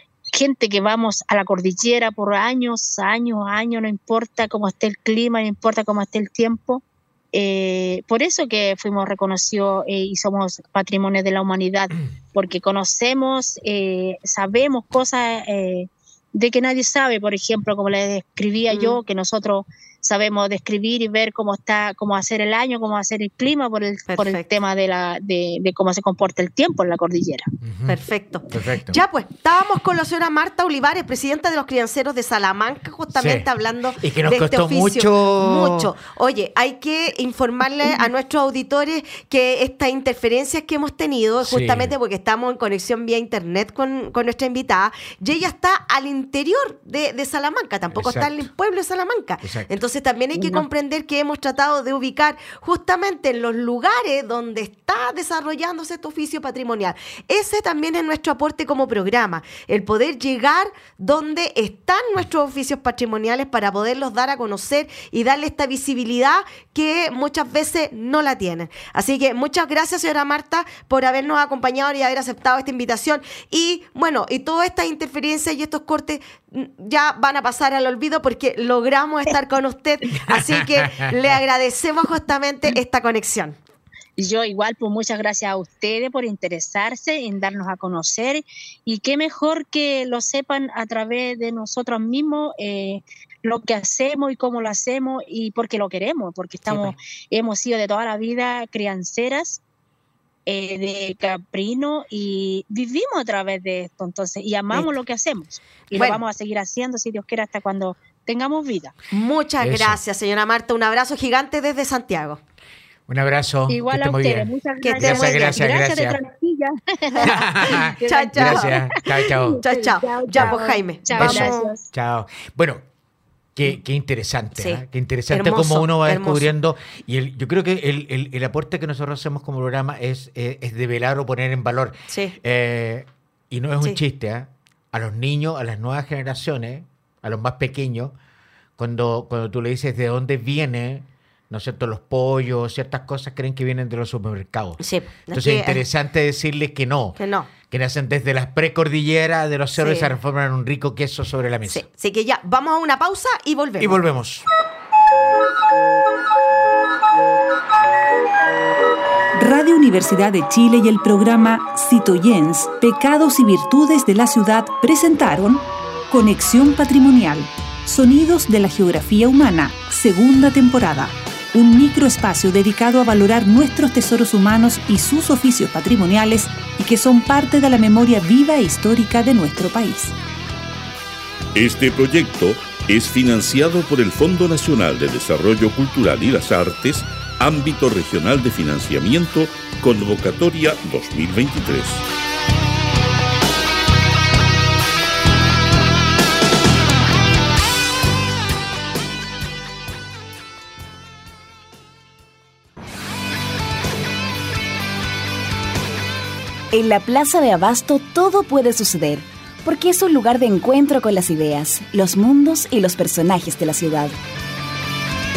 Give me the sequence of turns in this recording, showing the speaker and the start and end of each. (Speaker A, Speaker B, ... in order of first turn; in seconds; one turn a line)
Speaker A: 0.3-27.5
Speaker B: 18.7-19.0
Speaker B: 24.1-24.5
Speaker C: 27.6-29.0
Speaker B: 27.9-83.6
Speaker C: 33.1-33.5
Speaker C: 34.0-35.9
Speaker C: 41.4-41.9
Speaker C: 47.9-48.5
Speaker C: 49.4-49.7
Speaker C: 80.2-81.1
Speaker A: 84.2-99.6
Speaker C: 96.7-97.0
Speaker A: 100.5-108.9
Speaker B: 105.9-106.2
Speaker B: 109.1-112.4
Speaker C: 109.6-110.0
Speaker C: 113.1-116.2
Speaker A: 113.7-121.9
Speaker B: 114.8-115.8
Speaker B: 117.2-121.7
Speaker C: 117.2-119.6
Speaker C: 121.1-122.8
Speaker C: 123.5-138.1
Speaker B: 124.6-126.5
Speaker B: 132.1-132.3
Speaker C: 138.8-144.8
Speaker B: 144.8-145.8
Speaker C: 145.3-151.8
Speaker B: 147.2-147.5
Speaker B: 149.8-150.1
Speaker B: 151.7-154.0
Speaker C: 153.8-154.5
Speaker D: 159.3-180.1
Speaker E: 181.5-192.0
Speaker F: 206.7-214.1